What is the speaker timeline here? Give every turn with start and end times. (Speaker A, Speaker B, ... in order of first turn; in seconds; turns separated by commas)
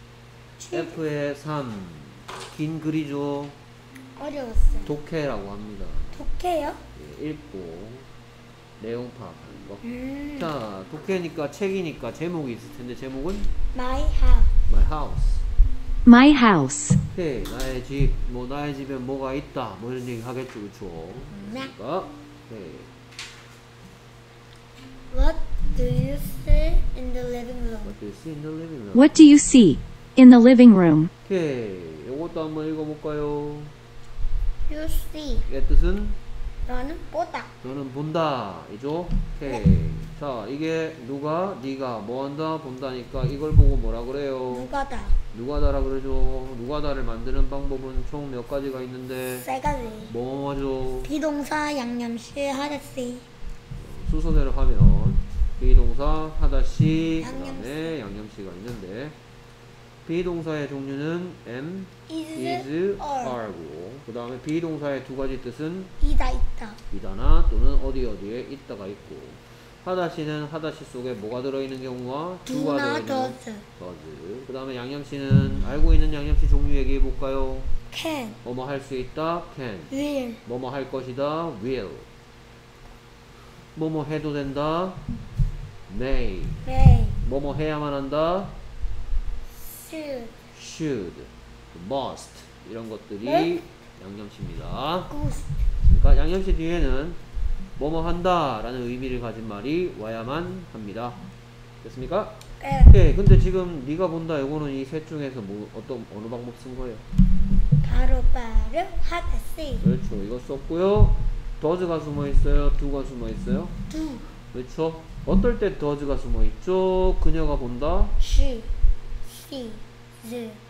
Speaker A: 0.6-1.0, Speaker B: 0.7-3.6, Speaker A: 4.2-4.9, Speaker B: 4.8-6.2, Speaker A: 6.1-6.8, Speaker B: 7.0-8.1, Speaker B: 8.8-9.8, Speaker A: 9.8-10.5, Speaker B: 10.4-13.5, Speaker A: 13.7-14.5, Speaker B: 14.7-15.4, Speaker C: 16.0-17.0, Speaker B: 17.1-22.9, Speaker A: 21.3-21.7, Speaker A: 25.1-27.9, Speaker B: 27.8-29.2, Speaker C: 28.9-31.1, Speaker B: 31.2-33.7, Speaker A: 34.7-35.5, Speaker B: 35.5-36.2, Speaker A: 36.6-37.5, Speaker B: 37.6-44.7, Speaker A: 44.5-45.1, Speaker B: 45.3-49.5, Speaker A: 49.4-50.1, Speaker B: 50.1-51.1, Speaker A: 51.0-53.2, Speaker B: 53.8-59.2, Speaker A: 57.2-58.0, Speaker B: 60.0-65.9, Speaker A: 62.1-63.4, Speaker A: 66.0-66.8, Speaker B: 66.9-77.7, Speaker A: 72.5-73.6, Speaker A: 77.9-78.4, Speaker B: 78.4-79.9, Speaker A: 79.9-80.4, Speaker B: 80.4-82.0, Speaker B: 83.7-85.0, Speaker B: 85.9-86.7, Speaker A: 86.6-87.2, Speaker B: 87.2-88.6, Speaker A: 89.5-90.3, Speaker B: 90.5-95.1, Speaker A: 93.2-93.6, Speaker A: 95.1-95.5, Speaker B: 95.8-97.2, Speaker B: 97.8-101.2, Speaker B: 101.8-102.3, Speaker A: 102.6-103.0, Speaker B: 102.9-107.0, Speaker A: 107.8-109.8, Speaker B: 109.8-113.7, Speaker A: 113.9-114.2, Speaker B: 114.5-118.2, Speaker A: 118.2-118.7, Speaker A: 119.2-120.6